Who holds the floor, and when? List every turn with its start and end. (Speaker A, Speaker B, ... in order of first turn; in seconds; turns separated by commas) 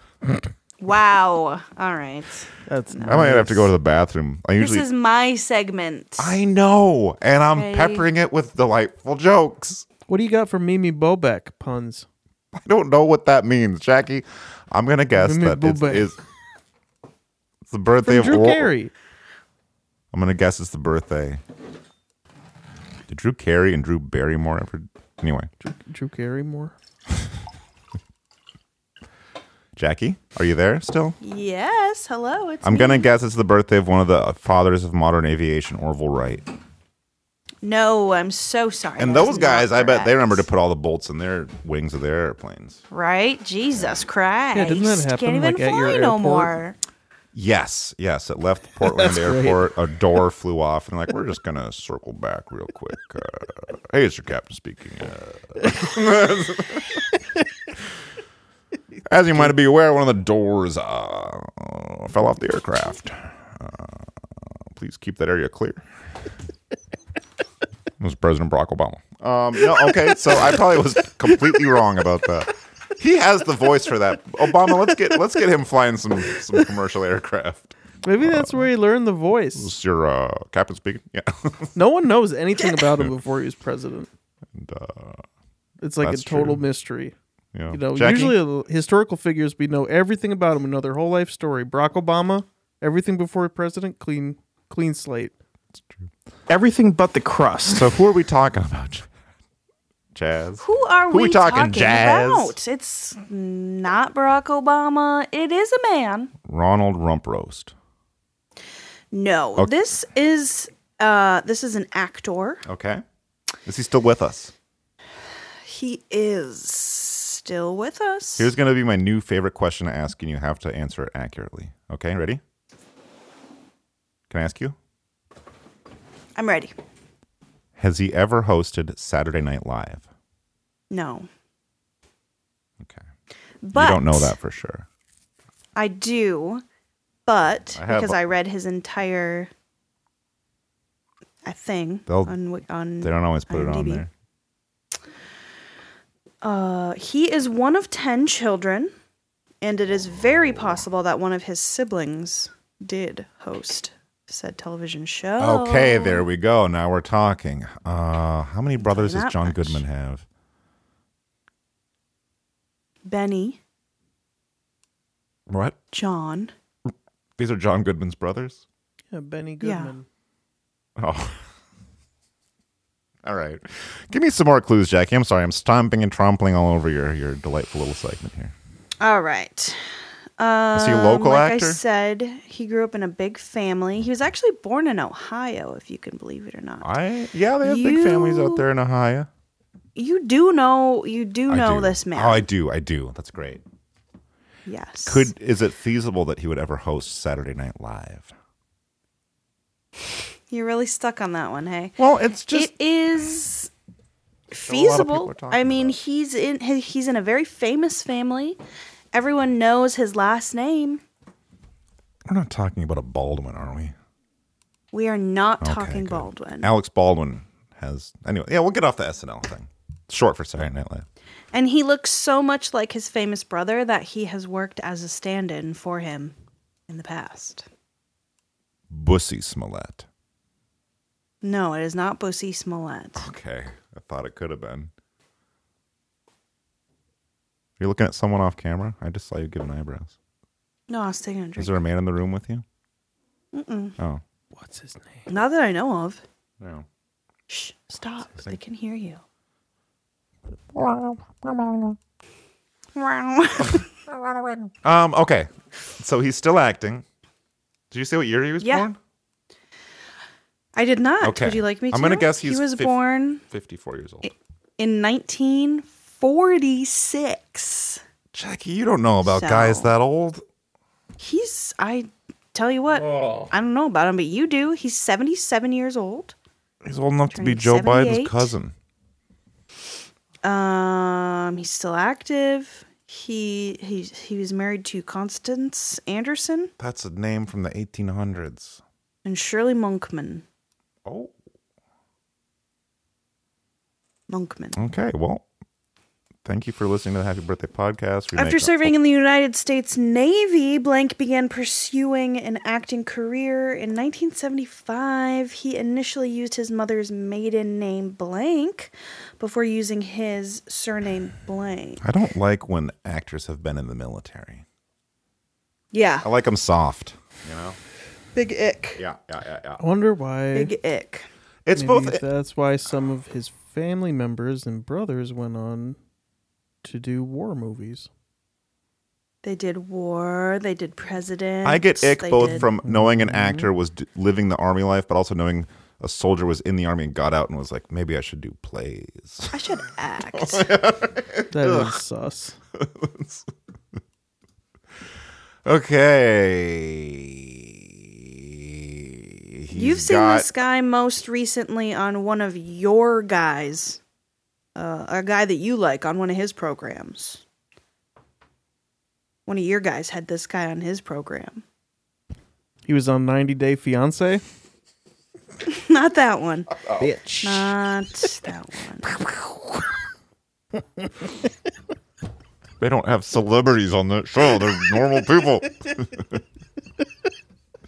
Speaker A: 0.8-3.2, Speaker B: 2.7-3.7, Speaker C: 3.1-4.9, Speaker A: 4.6-6.4, Speaker C: 6.2-9.9, Speaker A: 7.5-8.1, Speaker B: 10.1-12.1, Speaker C: 12.6-16.2, Speaker B: 15.1-16.1, Speaker C: 17.7-18.8, Speaker B: 18.0-18.9, Speaker C: 20.1-21.4, Speaker C: 23.1-25.5, Speaker B: 25.6-26.7, Speaker C: 29.8-31.2, Speaker A: 31.2-33.1, Speaker C: 32.6-36.5, Speaker A: 37.6-40.5, Speaker C: 39.0-42.8, Speaker A: 42.9-46.8, Speaker B: 44.5-46.5, Speaker C: 47.3-56.9, Speaker B: 48.8-49.7, Speaker C: 59.1-64.1, Speaker C: 64.7-65.8, Speaker C: 68.0-78.7, Speaker B: 78.0-79.7, Speaker C: 79.5-81.7, Speaker B: 81.8-84.1, Speaker C: 84.5-85.2, Speaker B: 85.8-87.2, Speaker C: 86.0-86.6, Speaker C: 87.5-88.4, Speaker B: 87.7-95.3, Speaker B: 96.5-97.8, Speaker C: 97.7-99.1, Speaker C: 100.2-102.6, Speaker A: 100.6-106.3, Speaker C: 106.5-107.7, Speaker A: 109.1-112.6, Speaker C: 112.7-113.0, Speaker C: 113.7-114.5, Speaker A: 115.7-118.5, Speaker C: 118.4-122.4, Speaker C: 124.3-124.8, Speaker A: 126.4-126.7, Speaker C: 127.8-130.1, Speaker A: 130.9-131.3, Speaker A: 133.6-134.3, Speaker C: 133.7-134.9, Speaker A: 135.8-136.6, Speaker A: 137.3-139.5, Speaker C: 137.7-138.2, Speaker A: 141.4-144.1, Speaker C: 142.1-142.4, Speaker C: 143.0-144.1, Speaker A: 146.4-148.9, Speaker A: 149.6-156.3, Speaker C: 155.4-160.2, Speaker A: 158.8-159.8, Speaker A: 163.1-163.6, Speaker C: 165.5-165.8, Speaker A: 165.9-166.5, Speaker C: 167.4-168.7, Speaker B: 169.1-170.1, Speaker A: 169.6-169.9, Speaker C: 171.0-171.4, Speaker C: 173.2-178.5, Speaker A: 179.0-179.8, Speaker A: 180.4-186.9, Speaker C: 180.7-181.8, Speaker C: 186.8-189.3, Speaker A: 187.6-188.7, Speaker A: 190.0-192.5, Speaker C: 191.5-193.6, Speaker A: 194.7-195.3, Speaker C: 195.1-198.3, Speaker A: 200.5-202.0, Speaker C: 202.0-202.7, Speaker A: 202.5-203.7, Speaker A: 204.5-208.6, Speaker C: 204.7-206.0, Speaker A: 209.1-211.0, Speaker C: 212.3-213.9, Speaker A: 214.9-216.7, Speaker C: 215.6-221.1, Speaker A: 221.5-226.4, Speaker A: 226.9-227.7, Speaker C: 228.9-230.1, Speaker A: 231.4-233.2, Speaker C: 233.2-234.9, Speaker C: 237.8-240.2, Speaker A: 240.9-241.8, Speaker C: 241.6-242.7, Speaker A: 243.5-244.0, Speaker B: 244.5-245.2, Speaker A: 245.3-246.2, Speaker C: 246.6-246.9, Speaker A: 247.5-249.2, Speaker C: 250.7-252.0, Speaker A: 252.9-253.9, Speaker C: 254.8-257.0, Speaker C: 257.9-259.0, Speaker A: 258.6-258.9, Speaker A: 260.8-263.4, Speaker C: 261.2-264.3, Speaker A: 264.2-268.0, Speaker C: 268.3-270.4, Speaker A: 269.2-269.9, Speaker A: 271.2-276.4, Speaker C: 276.8-278.7, Speaker A: 277.3-278.5, Speaker A: 280.4-286.7, Speaker C: 286.8-288.8, Speaker A: 289.2-290.4, Speaker C: 291.1-291.3, Speaker A: 294.3-294.8, Speaker C: 294.8-295.4, Speaker C: 296.4-298.9, Speaker A: 298.4-312.0, Speaker C: 312.0-314.6, Speaker A: 315.9-316.2, Speaker C: 316.2-317.8, Speaker A: 318.4-319.0, Speaker C: 319.0-319.8, Speaker B: 319.8-320.7, Speaker A: 320.5-321.3, Speaker C: 321.7-322.2, Speaker B: 321.8-326.0, Speaker B: 326.8-328.1, Speaker A: 329.4-332.7, Speaker C: 331.6-339.7, Speaker B: 332.4-333.7, Speaker A: 339.5-340.7, Speaker C: 340.3-341.9, Speaker B: 341.5-342.6, Speaker C: 342.8-343.5, Speaker C: 345.6-350.5, Speaker A: 349.7-354.0, Speaker A: 354.8-357.4, Speaker A: 359.5-361.6, Speaker B: 362.9-364.4, Speaker A: 365.7-366.7, Speaker B: 367.0-367.7, Speaker A: 367.4-369.1, Speaker C: 372.8-376.4